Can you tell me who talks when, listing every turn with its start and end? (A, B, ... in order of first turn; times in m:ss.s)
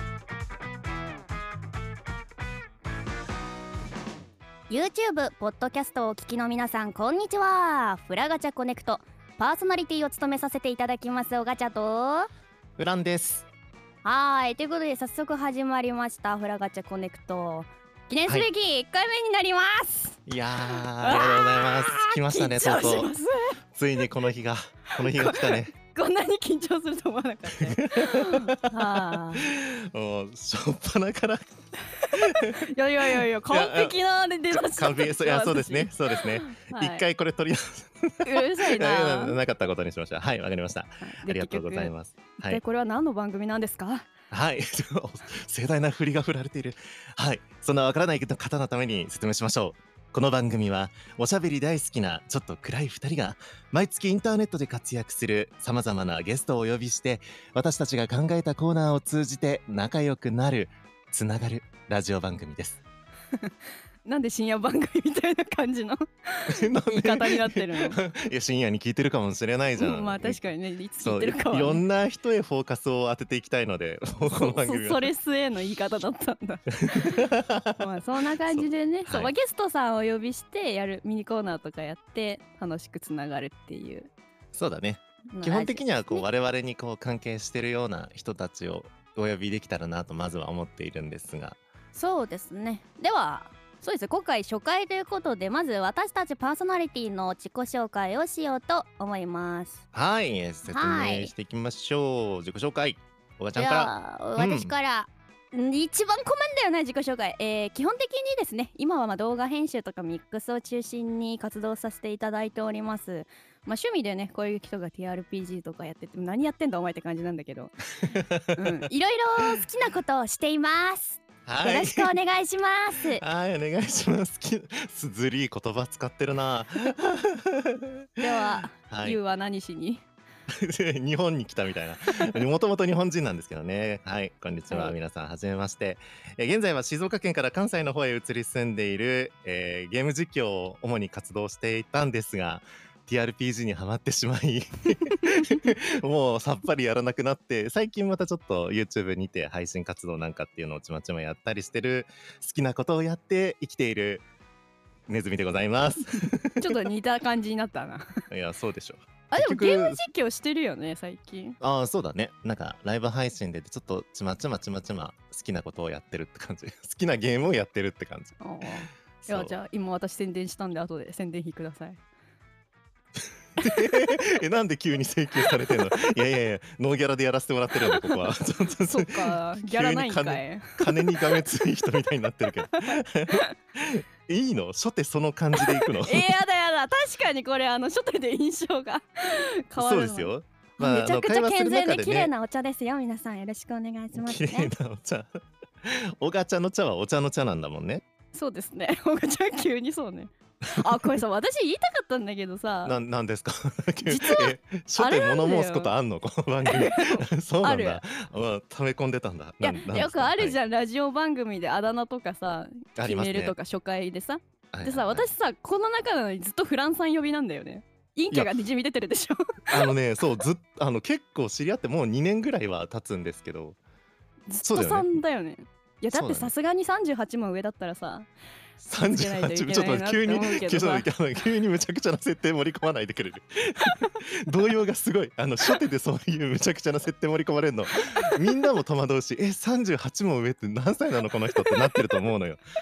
0:04.7-0:12.3 A
0:12.8-0:13.5 B
0:14.0-0:20.2 A
0:20.3-0:23.1 B
0:21.0-0:23.6 A
0:23.7-0:25.7 B
0:25.1-0:29.5 A
0:27.7-0:31.4 B
0:32.0-0:37.0 A
0:32.1-0:34.0 B
0:34.5-0:42.6 B
0:38.2-0:39.4 A
0:41.0-0:41.9 A
0:42.4-0:44.1 A
0:44.3-1:02.8 B
1:04.0-1:08.0 A
1:06.5-1:10.4 B
1:09.8-1:11.8 A
1:11.0-1:15.1 B
1:14.2-1:24.1 A
1:16.8-1:17.9 B
1:18.5-1:19.3 B
1:24.5-1:31.6 B
1:25.3-1:26.2 A
1:31.9-1:39.8 A
1:39.9-1:44.7 B
1:40.7-1:41.3 A
1:43.6-1:57.7 A
1:58.0-1:58.7 B
1:58.5-2:03.2 A
2:01.4-2:02.1 B
2:03.1-2:08.0 B
2:08.2-2:10.0 A
2:08.7-2:09.2 B
2:10.6-2:34.2 B
2:14.7-2:14.9 A
2:35.1-2:36.8 B
2:36.1-2:38.2 A
2:38.3-2:40.0 B
2:39.3-2:41.6 A
2:41.6-2:48.4 B
2:48.4-2:52.0 A
2:49.2-2:49.5 B
2:53.6-3:06.4 B
2:57.9-2:58.2 A
2:58.8-3:01.4 A
3:02.7-3:03.5 A
3:05.6-3:14.7 A
3:09.8-3:12.3 B
3:14.1-3:15.3 B
3:15.8-3:18.0 B
3:18.3-3:23.0 A
3:22.8-3:30.6 B
3:24.0-3:25.9 A
3:26.6-3:28.0 A
3:29.6-3:39.9 A
3:33.0-3:33.5 B
3:34.7-3:35.3 B
3:39.7-3:43.8 B
3:44.5-3:48.3 A
3:44.6-3:45.2 B
3:46.1-3:46.5 B
3:48.8-4:02.6 B
3:49.0-3:51.1 A
3:58.2-3:58.6 A